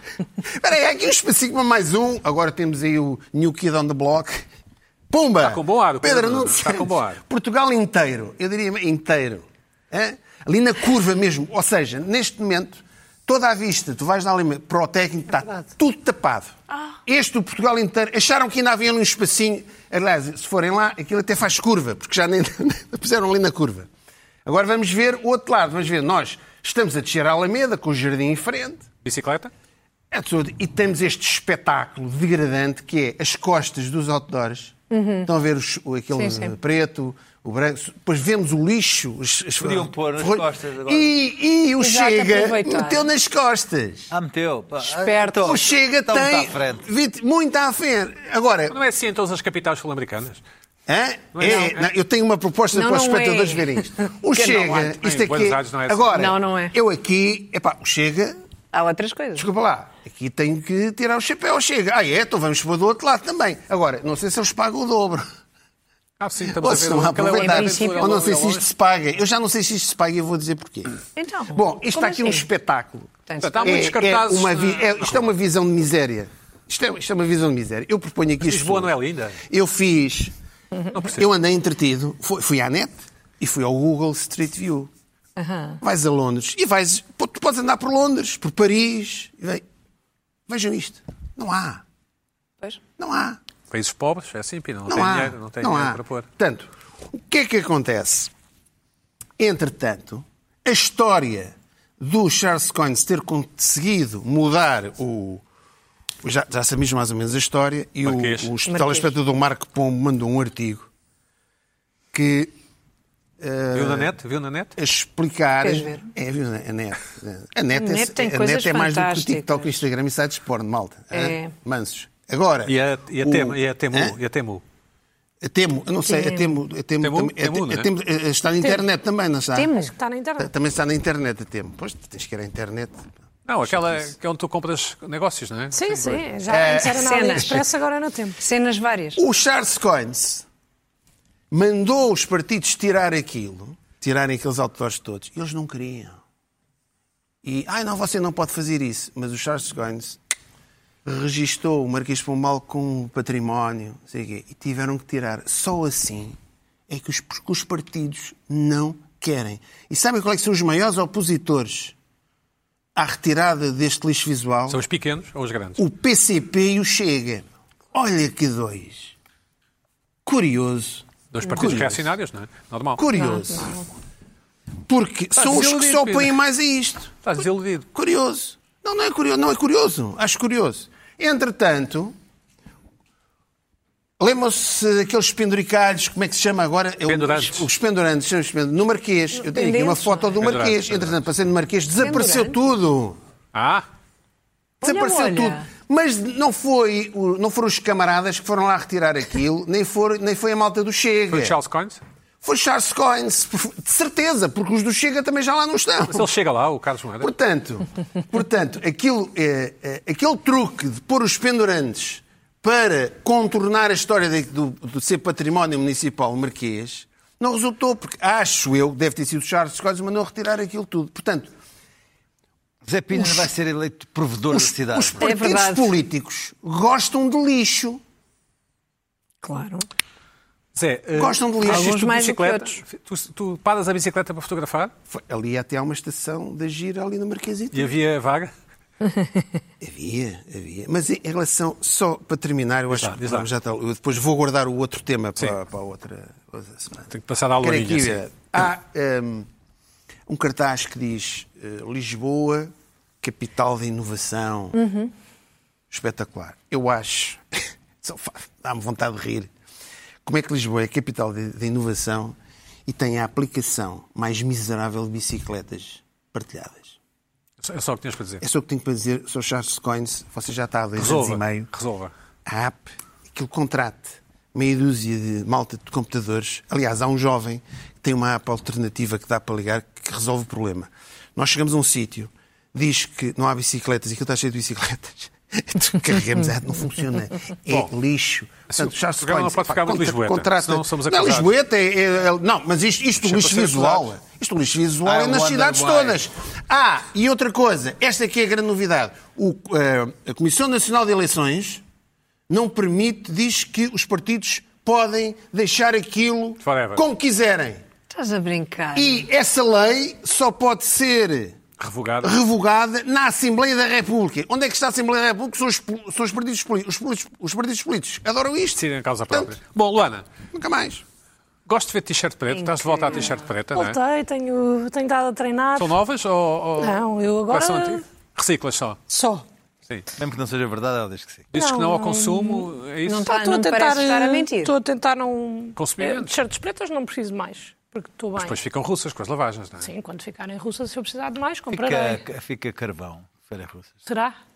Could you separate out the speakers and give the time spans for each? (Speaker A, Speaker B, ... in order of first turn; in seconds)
Speaker A: 0.5-4.4, 5.1-16.5, 17.1-23.9, 24.4-28.8, 30.1-44.1, 45.4-48.8, 50.9-58.4, 59.3-65.3, 66.5-71.0, 71.5-78.9, 79.5-80.3, 81.1-84.9, 85.8-89.6, 90.5-91.8, 93.0-93.4, 94.9-98.3, 99.4-105.4, 106.2-110.9, 112.1-112.5, 113.4-114.1, 114.8-124.1, 125.4-129.7, 130.4-133.1, 133.7-134.1, 136.5-137.6, 139.2-140.4, 141.5-146.2, 147.4-150.2, 151.0-156.4, 156.9-161.9, 162.9-164.8, 165.8-169.1, 170.2-172.1, 173.0-173.8, 174.9-177.2, 177.9-182.1, 184.2-193.2, 194.8-201.6, 202.4-206.3, 207.2-221.5, 224.5-228.0, 231.2-232.1, 235.1-237.9, 239.8-247.1, 247.6-249.5, 250.3-254.8, 255.9-257.4, 258.0-259.5, 260.2-267.0, 268.4-271.7, 272.4-301.8, 302.5-307.8, 308.9-311.6, 312.2-319.6, 320.5-321.0
Speaker B: 5.4-7.2, 29.0-29.5, 48.7-50.4, 51.3-51.9, 54.9-56.1, 66.2-68.7, 73.4-75.3, 78.4-79.4, 80.9-81.2, 93.7-96.3, 108.0-108.5, 113.7-114.8, 122.6-124.6, 127.0-127.9, 133.4-136.2, 164.7-165.8, 171.3-173.0, 175.3-176.4, 177.2-177.8, 187.1-187.7, 190.4-191.2, 193.5-193.8, 201.3-202.0, 206.0-207.3, 230.7-234.9, 237.7-238.5, 242.9-243.5, 247.1-248.2, 267.6-268.4, 271.0-272.1, 288.7-291.5, 293.2-294.1, 306.6-307.0, 311.8-312.4, 318.8-320.2, 321.7-324.0, 325.8-329.0, 331.5-333.3, 335.8-336.3, 338.4-339.9
Speaker C: 34.9-35.3, 36.1-36.5, 41.8-43.1, 44.9-45.5, 52.7-54.9, 56.1-56.8, 58.7-59.5, 67.3-68.2, 71.2-72.5, 73.3-73.9, 85.4-85.8, 108.7-109.1, 115.6-116.0, 117.7-119.8, 121.1-121.5, 126.0-126.6, 129.5-129.9, 136.9-137.6, 138.4-139.2, 173.2-173.8, 189.4-190.3, 192.0-192.6, 194.8-195.7, 225.2-225.9, 229.4-229.9, 231.6-232.8, 239.1-239.4, 254.8-255.1, 308.1-309.2, 322.5-323.3, 333.1-334.7
Speaker D: 39.6-41.1, 44.1-46.8, 222.8-225.3, 295.0-296.2, 330.2-331.4, 341.7-344.0
Speaker E: 129.7-130.5, 135.7-138.4, 323.7-325.9, 326.8-328.0, 329.1-329.4, 331.5-332.7, 333.2-338.6, 339.8-342.2, 344.1-344.4